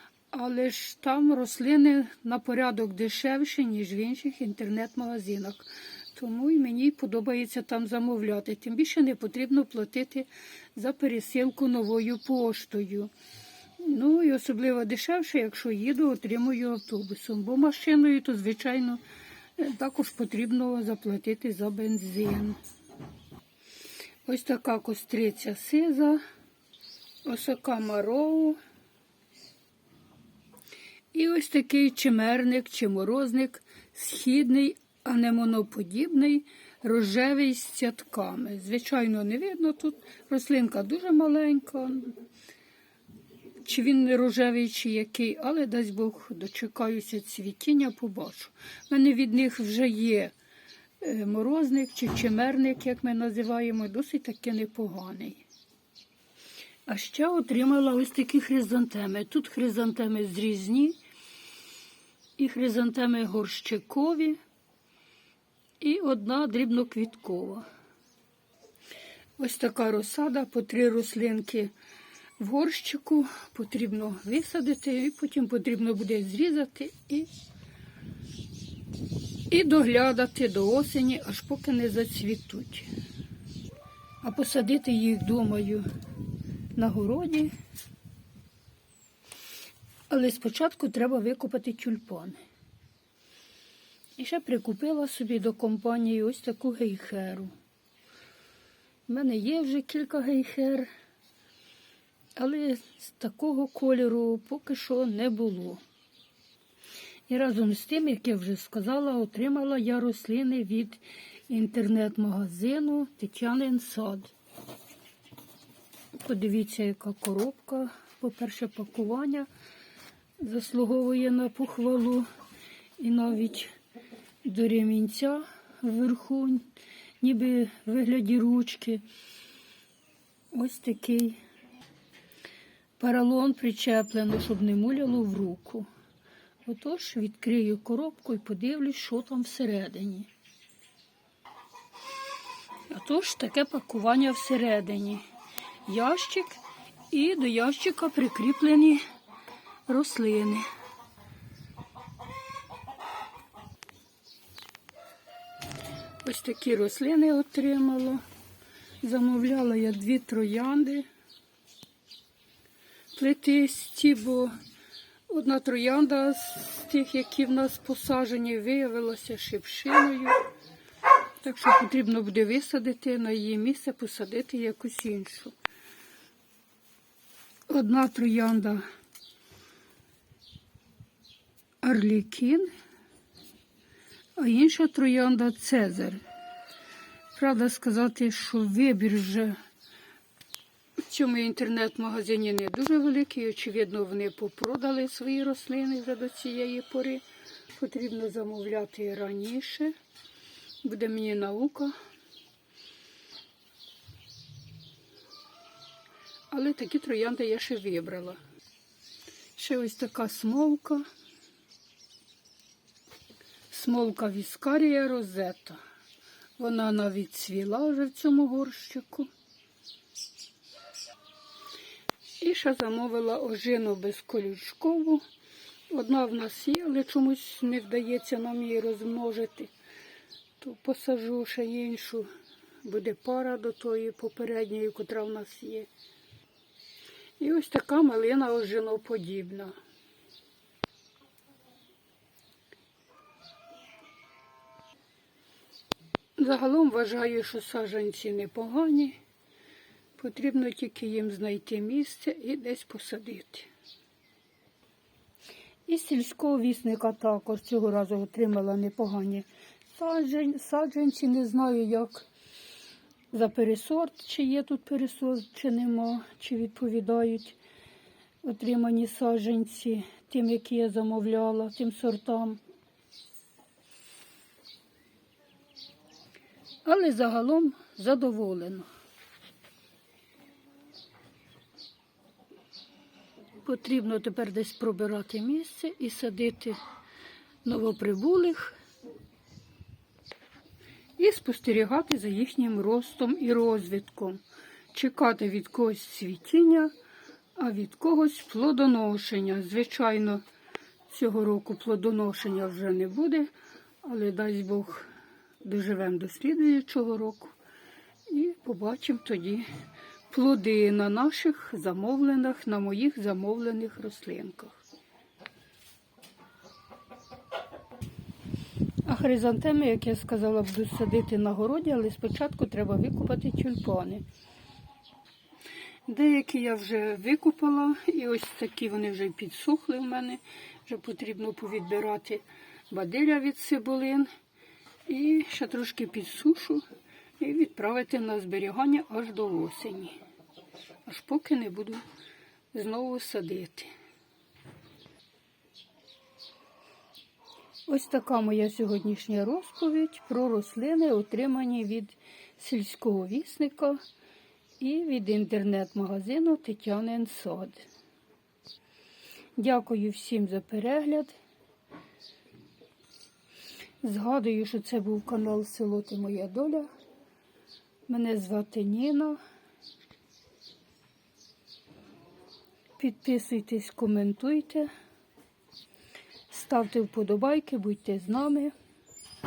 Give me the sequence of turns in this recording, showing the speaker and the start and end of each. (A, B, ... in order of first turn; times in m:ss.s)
0:00.3-0:13.1 A
0:13.8-0:19.0 A
0:19.6-0:22.6 A
0:24.3-0:26.2 A
0:27.2-0:28.6 A
0:31.1-0:42.1 A
0:43.6-0:50.3 A
0:51.0-0:55.4 A
0:56.9-1:01.0 A
1:02.4-1:04.4 A
1:05.8-1:07.6 A
1:09.4-1:11.7 A
1:12.4-1:17.3 A
1:19.5-1:22.9 A
1:24.2-1:25.8 A
1:26.8-1:27.5 A
1:30.1-1:32.4 A
1:34.2-1:37.5 A
1:39.1-1:40.9 A
1:42.4-1:45.8 A
1:47.3-1:54.3 A
1:56.2-1:59.5 A
2:00.4-2:02.3 A
2:03.0-2:03.7 A
2:04.4-2:06.6 A
2:07.2-2:09.0 A
2:10.5-2:11.4 A
2:13.0-2:15.9 A
2:16.7-2:20.3 A
2:22.9-2:25.2 A
2:25.9-2:29.0 A
2:29.9-2:30.6 A
2:36.2-2:38.2 A
2:39.0-2:41.1 A
2:43.1-2:44.5 A
2:45.3-2:50.4 A
2:51.4-2:55.6 A
2:57.7-2:58.8 A
3:01.8-3:02.7 A
3:04.4-3:06.2 A
3:07.3-3:09.6 A
3:11.1-3:17.2 A
3:17.7-3:20.0 A
3:20.8-3:21.9 A
3:26.5-3:28.4 A
3:29.6-3:31.0 A
3:33.7-3:35.8 A
3:36.6-3:39.3 A
3:42.4-3:45.2 A
3:45.9-3:49.7 A
3:50.6-3:52.3 A
3:52.8-3:55.9 A
3:57.4-3:59.8 A
4:06.4-4:09.2 A
4:10.2-4:13.7 A
4:15.9-4:22.3 A
4:23.3-4:27.6 A
4:28.4-4:32.6 A
4:36.8-4:38.9 A
4:43.6-4:46.8 A
4:47.6-4:48.8 A
4:51.2-4:54.4 A
4:54.9-4:56.9 A
4:57.6-5:00.4 A
5:01.1-5:03.5 A
5:04.0-5:05.1 A
5:05.6-5:07.6 A
5:08.3-5:09.7 A
5:10.3-5:14.8 A
5:19.1-5:24.2 A
5:26.1-5:34.3 A
5:35.1-5:36.8 A
5:37.4-5:40.2 A
5:41.1-5:42.0 A
5:42.7-5:43.9 A
5:47.9-5:54.0 A
5:54.8-5:57.9 A
5:59.6-6:01.4 A
6:04.0-6:06.9 A
6:08.1-6:09.4 A
6:13.0-6:14.9 A
6:16.5-6:18.7 A